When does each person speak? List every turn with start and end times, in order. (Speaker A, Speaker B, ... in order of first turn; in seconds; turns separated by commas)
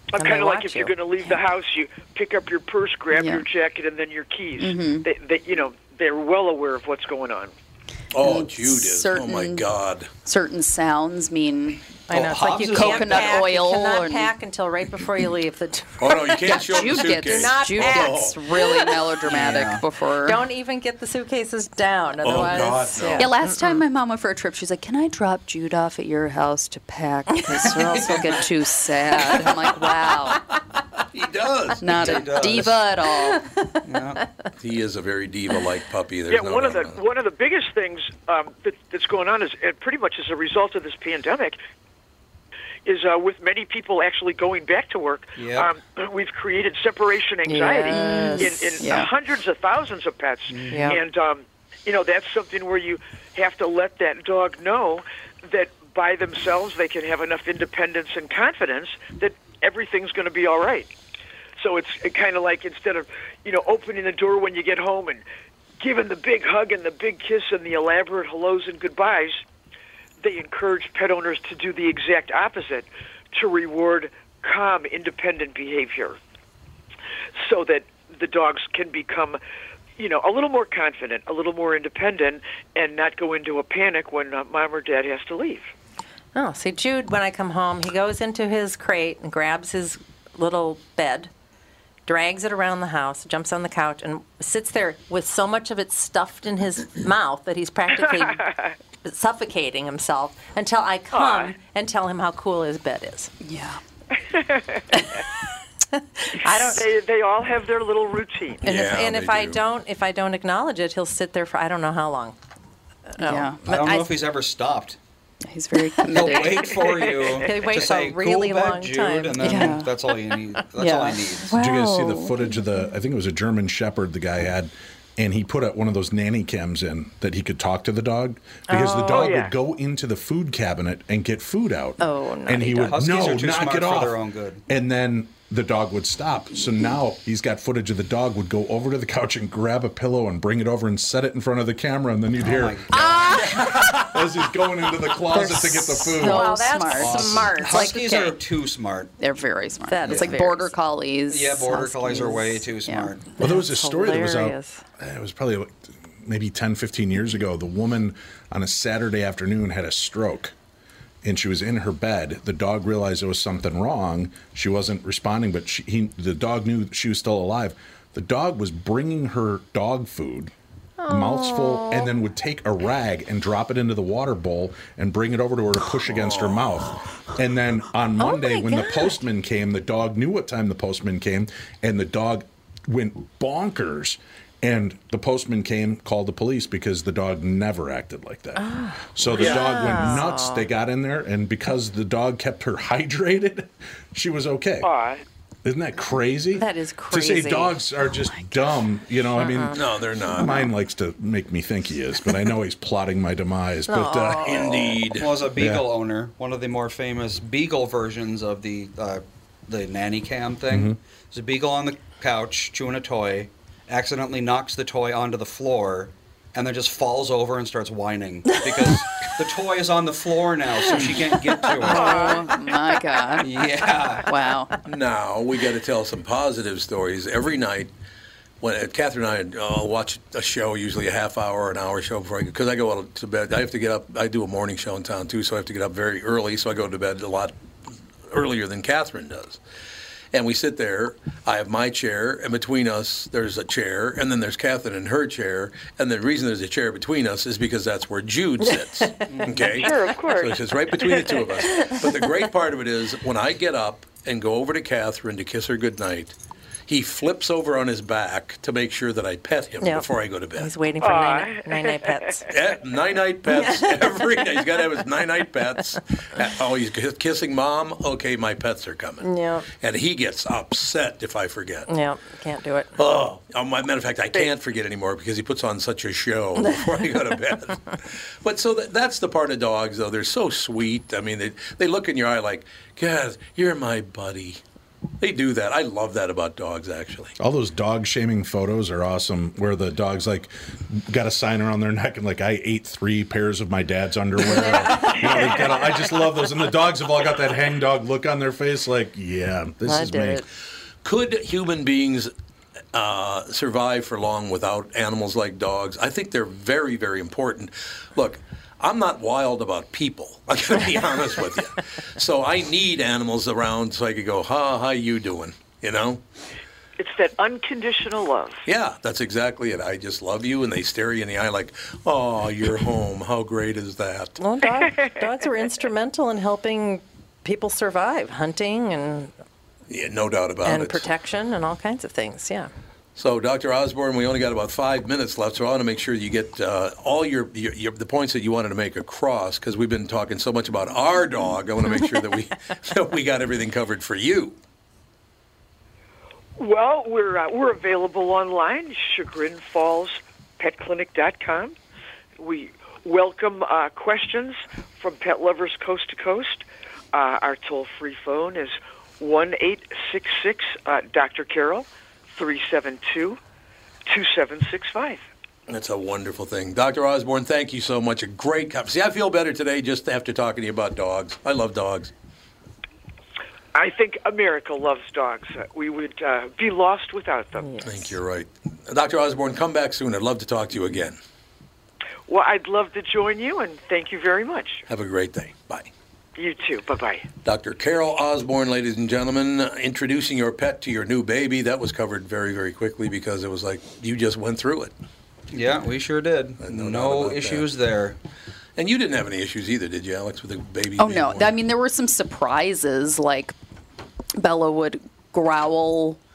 Speaker A: 0.1-7.5, Speaker B: 0.1-1.4, Speaker C: 3.1-3.4, Speaker C: 4.6-5.1, Speaker D: 8.1-10.1, Speaker C: 8.2-9.7, Speaker C: 10.2-11.8, Speaker B: 12.1-18.9, Speaker E: 12.1-13.5, Speaker C: 12.7-14.3, Speaker D: 16.0-18.4, Speaker C: 16.5-20.4, Speaker E: 19.3-19.8, Speaker B: 20.2-23.8, Speaker D: 22.2-23.3, Speaker C: 23.1-30.4, Speaker D: 31.1-31.9, Speaker C: 31.8-33.5, Speaker E: 31.9-32.8, Speaker E: 33.8-34.2, Speaker D: 34.6-37.0, Speaker A: 36.3-41.6, Speaker A: 42.8-60.9, Speaker E: 45.4-45.7, Speaker B: 47.4-48.9, Speaker C: 47.9-49.1, Speaker E: 50.5-51.0, Speaker B: 50.7-51.0, Speaker A: 61.6-65.2, Speaker A: 65.8-69.4, Speaker A: 70.2-76.2, Speaker A: 77.4-79.4, Speaker A: 80.0-85.7, Speaker B: 86.3-91.3, Speaker B: 92.0-98.5, Speaker B: 99.0-103.3, Speaker A: 101.1-101.5, Speaker C: 103.4-103.8, Speaker A: 104.3-104.8, Speaker B: 106.2-106.9, Speaker A: 106.7-108.6, Speaker B: 108.6-112.4, Speaker D: 108.6-109.6, Speaker B: 113.2-114.2, Speaker C: 113.2-113.6, Speaker E: 113.6-115.0, Speaker C: 115.4-116.8, Speaker E: 116.1-121.5, Speaker B: 117.2-119.8, Speaker C: 119.4-119.9, Speaker C: 120.8-122.6, Speaker F: 121.5-142.8, Speaker B: 128.7-129.4, Speaker A: 129.1-129.5, Speaker B: 132.0-133.0, Speaker E: 132.8-134.6, Speaker E: 142.4-143.6, Speaker B: 143.1-143.9, Speaker F: 143.9-146.6, Speaker B: 145.2-148.3, Speaker C: 145.3-148.2, Speaker E: 146.9-149.1, Speaker C: 149.2-153.1, Speaker B: 149.9-150.7, Speaker E: 150.0-150.5, Speaker E: 151.3-153.4, Speaker B: 153.4-154.8, Speaker F: 153.4-160.5, Speaker F: 161.2-170.5, Speaker B: 171.0-172.2, Speaker F: 171.1-194.9, Speaker D: 176.1-176.7, Speaker B: 178.2-179.1, Speaker B: 188.5-190.7, Speaker A: 194.8-195.2, Speaker F: 195.6-204.7, Speaker B: 196.5-197.8, Speaker B: 199.3-200.7, Speaker D: 199.7-200.6, Speaker B: 203.9-205.0, Speaker D: 204.4-205.3, Speaker E: 205.1-222.3, Speaker F: 205.6-205.8, Speaker F: 210.7-211.0, Speaker C: 221.8-223.6, Speaker A: 221.9-222.5, Speaker E: 223.4-224.3, Speaker C: 224.2-224.7, Speaker D: 224.8-227.9, Speaker D: 228.6-237.5, Speaker D: 238.3-239.6, Speaker D: 240.3-256.3, Speaker B: 248.6-249.4, Speaker E: 249.3-249.6, Speaker A: 249.7-250.6, Speaker B: 251.8-252.2, Speaker D: 256.9-260.7, Speaker B: 259.8-262.5, Speaker A: 261.0-262.4, Speaker D: 262.5-269.3, Speaker B: 263.5-264.2, Speaker B: 269.2-269.7, Speaker D: 269.8-271.9, Speaker B: 271.9-272.9, Speaker D: 273.0-284.6, Speaker D: 285.2-287.3, Speaker F: 287.4-300.4, Speaker B: 294.4-295.5, Speaker B: 299.8-300.4, Speaker D: 301.0-302.3, Speaker D: 302.9-316.2, Speaker A: 317.0-318.6, Speaker D: 318.6-324.4, Speaker B: 324.4-329.3, Speaker D: 329.9-331.1, Speaker B: 330.6-332.7, Speaker D: 333.1-344.6, Speaker A: 346.6-351.7, Speaker A: 352.4-363.4, Speaker A: 364.1-365.2, Speaker D: 365.7-372.1, Speaker A: 373.7-377.7, Speaker B: 377.6-378.1, Speaker D: 377.8-381.2, Speaker A: 382.3-384.8, Speaker D: 384.9-385.9, Speaker A: 386.4-387.2, Speaker D: 387.4-394.9, Speaker E: 395.5-398.1, Speaker D: 396.6-397.7, Speaker D: 398.8-401.5, Speaker C: 401.0-403.5, Speaker C: 404.4-406.2